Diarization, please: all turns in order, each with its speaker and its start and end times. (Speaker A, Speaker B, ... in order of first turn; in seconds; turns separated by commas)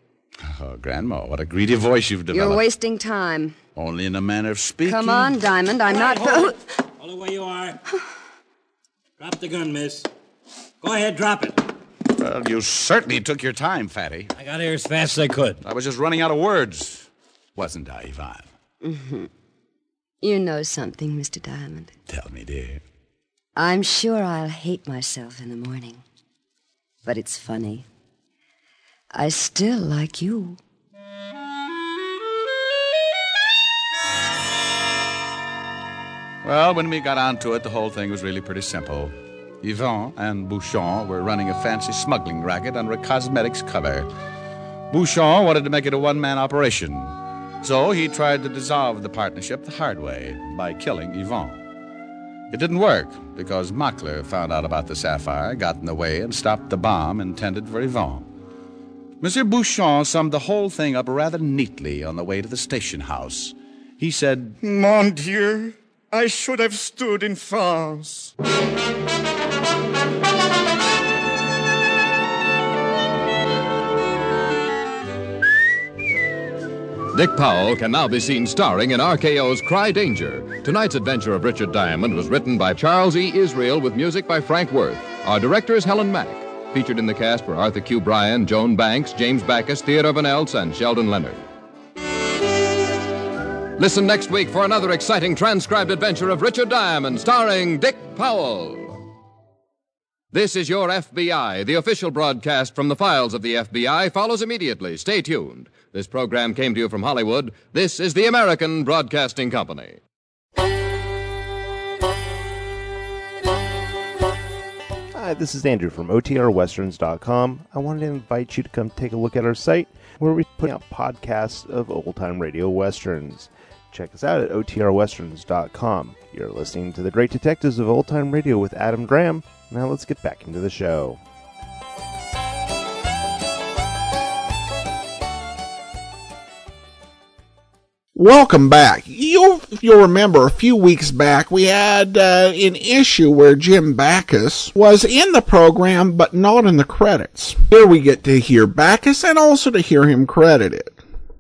Speaker A: 0.4-2.6, Speaker B: 2.3-3.5, Speaker A: 3.8-5.4, Speaker B: 4.8-6.6, Speaker C: 5.8-7.8, Speaker C: 9.2-10.1, Speaker C: 10.8-11.6, Speaker A: 12.1-14.3, Speaker C: 14.3-15.6, Speaker A: 15.6-18.5, Speaker B: 18.8-19.3, Speaker B: 20.2-21.9, Speaker A: 22.1-22.8, Speaker B: 23.6-26.0, Speaker B: 27.0-27.9, Speaker B: 29.1-30.6, Speaker A: 36.4-44.1, Speaker A: 44.9-51.6, Speaker A: 52.5-58.3, Speaker A: 59.2-64.6, Speaker D: 64.6-68.3, Speaker E: 77.1-91.4, Speaker E: 93.8-99.0, Speaker E: 100.3-110.0, Speaker F: 115.1-131.2, Speaker G: 138.1-151.0